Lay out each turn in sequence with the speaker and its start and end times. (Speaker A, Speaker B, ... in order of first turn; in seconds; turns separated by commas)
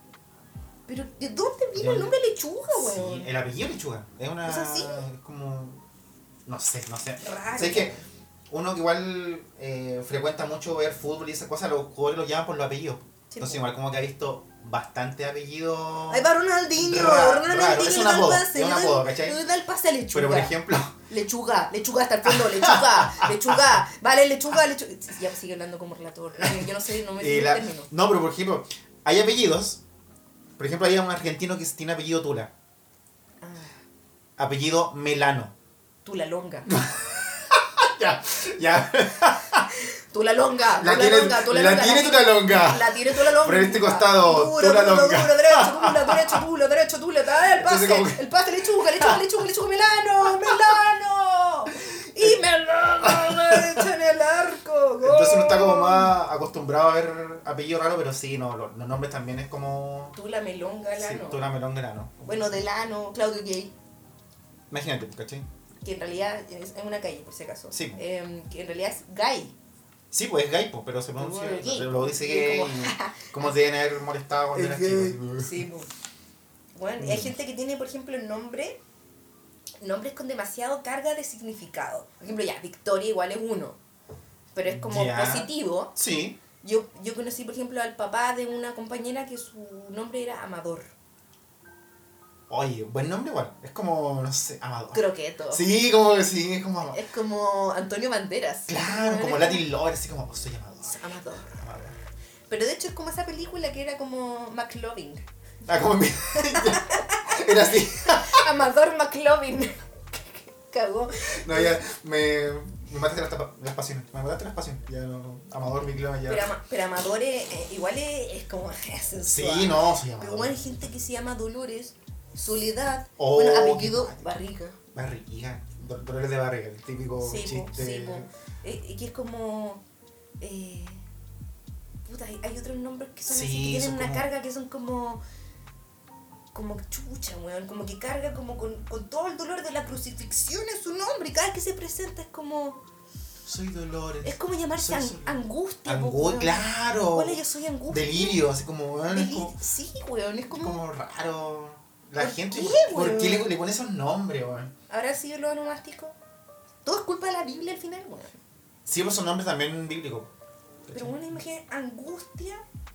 Speaker A: 0.9-3.3, Speaker B: 1.7-2.2, Speaker B: 2.7-5.8, Speaker A: 4.4-5.0, Speaker B: 6.5-7.9, Speaker A: 7.2-8.0, Speaker B: 8.5-19.4, Speaker A: 13.3-13.6, Speaker A: 16.1-27.9, Speaker B: 20.1-20.9, Speaker B: 22.2-23.8, Speaker B: 26.4-29.8, Speaker B: 30.6-32.5, Speaker A: 33.4-33.8, Speaker B: 34.4-35.5, Speaker A: 36.0-36.7, Speaker B: 36.7-39.7, Speaker A: 39.8-56.1, Speaker B: 40.8-46.4, Speaker B: 47.6-48.2, Speaker B: 49.0-49.2, Speaker B: 53.0-53.8, Speaker B: 55.0-60.2, Speaker A: 60.1-61.4, Speaker B: 61.0-62.6, Speaker A: 62.2-63.7, Speaker B: 64.7-65.5, Speaker A: 65.8-69.5, Speaker B: 67.7-68.0, Speaker B: 70.1-75.7, Speaker A: 71.2-73.3, Speaker A: 74.5-75.9, Speaker A: 76.7-78.8, Speaker B: 77.0-77.3, Speaker A: 79.8-83.8, Speaker A: 84.5-85.9, Speaker B: 84.7-86.4, Speaker A: 86.6-90.9, Speaker B: 92.5-97.0, Speaker A: 94.9-95.6, Speaker A: 96.9-99.6, Speaker B: 98.7-102.0, Speaker A: 100.8-101.5, Speaker A: 102.5-105.2, Speaker B: 105.6-108.5, Speaker A: 106.5-111.8, Speaker B: 111.4-116.5, Speaker A: 116.3-124.8, Speaker B: 119.2-120.7, Speaker B: 123.2-124.3, Speaker B: 124.9-128.3, Speaker A: 127.2-129.8, Speaker A: 130.4-131.0, Speaker A: 132.1-135.2, Speaker B: 133.3-134.2, Speaker A: 136.5-142.8, Speaker B: 143.4-149.6, Speaker A: 144.2-148.4, Speaker A: 149.1-150.8, Speaker B: 150.5-154.7, Speaker A: 152.2-153.5, Speaker A: 154.9-156.2, Speaker A: 156.8-158.4, Speaker B: 158.8-160.3, Speaker B: 160.8-161.2, Speaker A: 160.9-162.6